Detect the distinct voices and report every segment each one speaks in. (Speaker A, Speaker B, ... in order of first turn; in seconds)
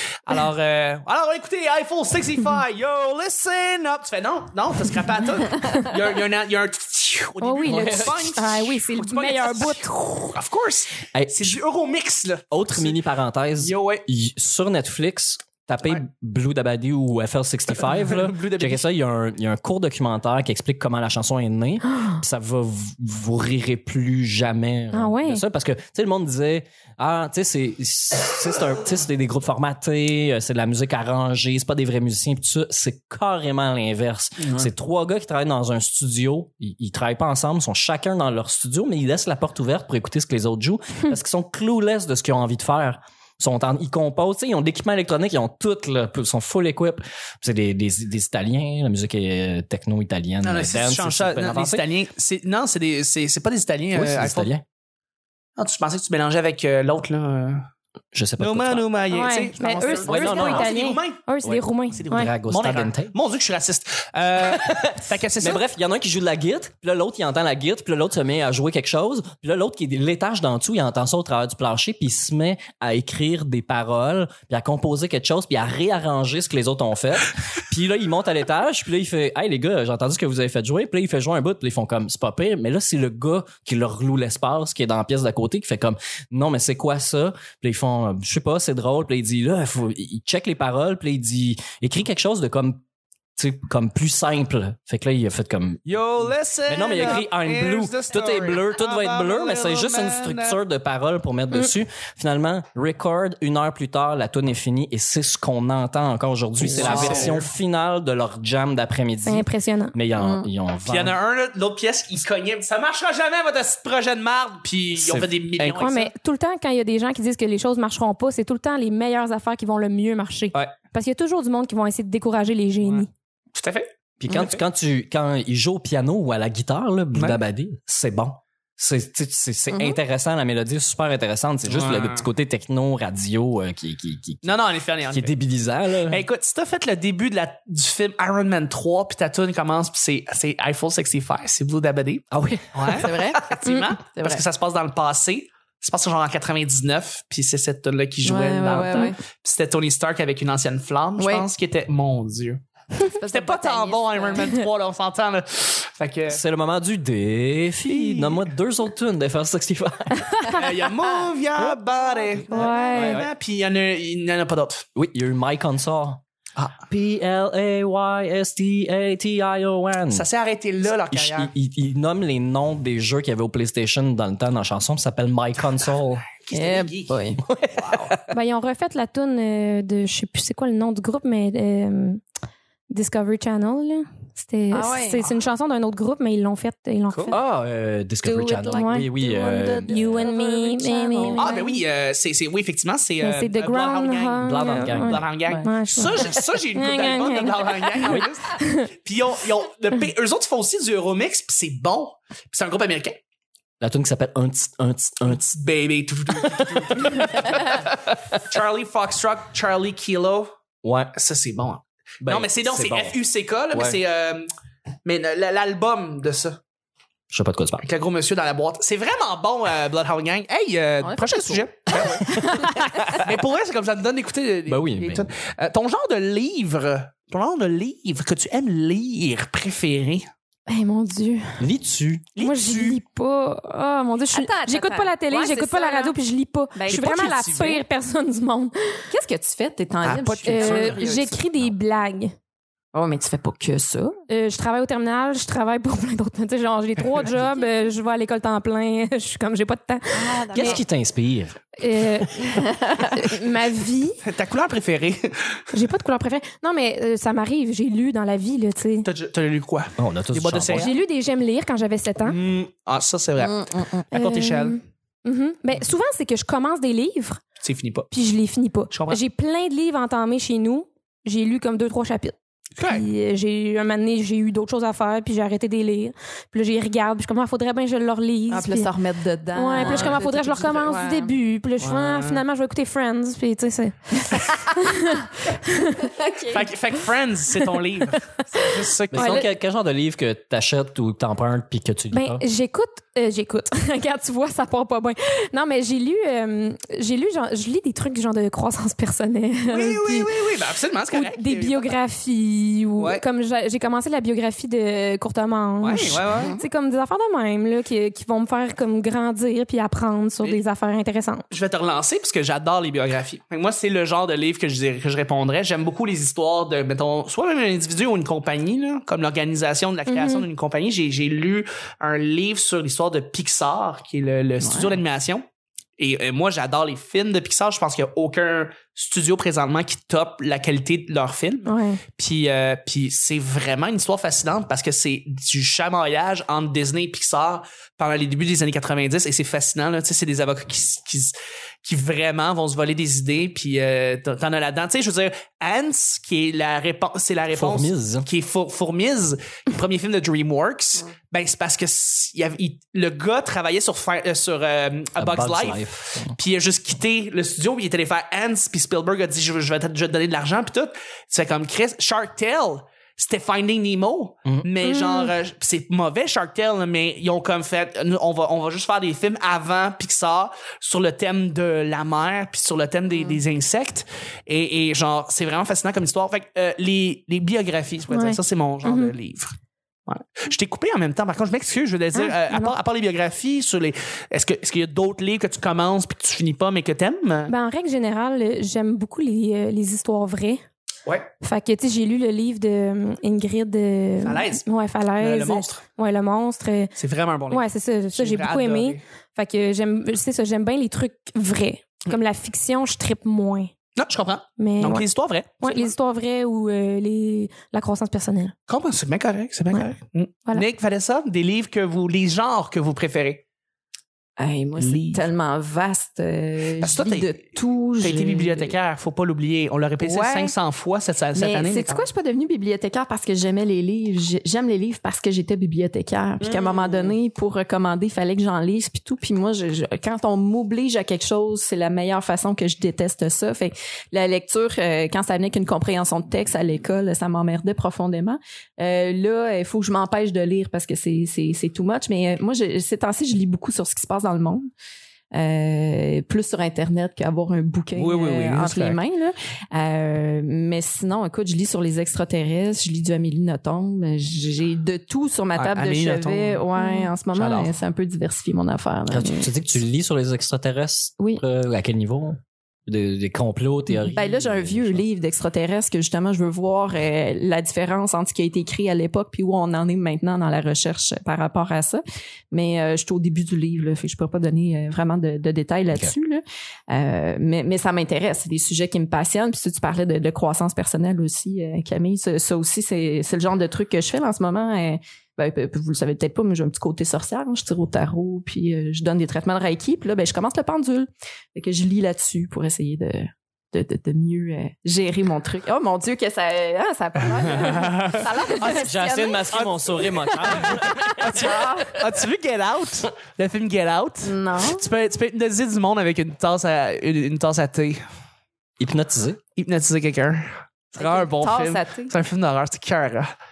Speaker A: 0.2-13.0, 13.6-14.0, 17.7-18.9, 50.4-54.5, 55.6-57.6, 58.4-61.2, 62.0-65.6, 95.8-100.6, 106.6-107.4, 110.8-116.1, 122.8-124.6, 127.1-127.4, 131.7-132.2, 134.4-135.3, 136.1-152.6, 153.2-156.4, 157.8-158.4, 160.5-164.8, 170.1-171.5, 176.4-178.1, 191.4-203.2, 205.3-210.5, 211.1-214.5, 215.0-216.6, 217.8-230.3, 232.3-233.0, 236.9-237.8, 240.0-241.4, 254.2-255.6, 259.0-260.9, 262.2-263.6, 264.1-264.8, 267.6-268.1, 268.9-269.2, 272.8-273.0, 279.8-280.2, 281.8-282.4, 286.5-289.5, 299.6-301.9, 303.0-303.2, 305.8-306.5, 311.5-325.4, 326.0-379.5, 380.1-387.5, 394.2-394.6, 395.2-395.8, 396.9-399.0, 404.0-405.9, 408.7-413.4, 414.8-415.3, 416.8-417.4, 418.0-422.1, 426.4-427.1, 447.9-449.0, 455.5-456.7, 457.3-457.7, 497.5-498.9, 499.5-508.0, 509.6-513.3
Speaker B: 7.4-9.9, 24.9-25.4, 59.1-62.3, 109.2-109.9, 115.7-123.1, 143.6-143.9, 162.5-163.2, 178.3-182.2, 182.9-187.4, 188.6-189.1, 189.9-191.6, 193.2-198.9, 230.7-231.6, 232.4-239.0, 240.4-242.3, 244.3-250.8, 251.8-254.2, 255.7-259.1, 260.7-262.4, 264.1-267.4, 268.1-278.9, 279.5-286.1, 289.1-289.4, 292.1-300.3, 301.1-311.4, 320.1-320.4, 331.6-332.0, 364.8-365.3, 378.1-379.1, 382.1-382.7, 387.5-390.6, 391.4-396.9, 397.5-403.7, 404.6-405.1, 405.6-408.5, 456.8-457.1
Speaker C: 7.7-8.4, 11.1-11.6, 12.5-51.8, 53.9-54.6, 58.1-58.9, 60.0-60.7, 61.4-63.1, 64.4-92.8, 93.3-95.8, 96.7-111.1, 115.0-115.7, 124.2-134.5, 135.1-136.2, 142.3-143.0, 156.3-160.5, 162.5-163.3, 164.9-166.2, 166.9-170.2, 171.1-176.3, 177.5-178.2, 187.3-190.2, 194.4-195.2, 203.8-205.4, 206.4-207.2, 210.8-211.1, 212.2-213.2, 213.7-214.0, 217.3-217.8, 222.0-222.7, 224.7-225.3, 231.6-232.2, 250.5-252.3, 260.0-260.9, 289.1-292.4, 347.5-348.2, 355.2-356.4, 459.1-465.0, 498.6-501.8, 508.8-509.4
Speaker D: 106.8-107.4, 110.2-110.5, 129.7-130.0, 142.9-144.4, 148.2-149.1, 151.2-151.5, 153.0-154.6, 162.5-162.9, 176.5-177.4, 184.7-185.3, 188.2-191.8, 221.0-223.2, 234.3-236.2, 236.7-237.3, 239.1-241.1, 242.9-244.2, 247.4-247.7, 250.1-250.8, 252.6-253.0, 263.4-264.1, 278.5-281.3, 286.1-286.7, 306.2-306.6, 324.6-325.0, 414.4-418.7, 420.0-420.5, 421.3-444.6, 445.3-459.5, 463.9-501.9, 504.2-504.8, 511.0-512.1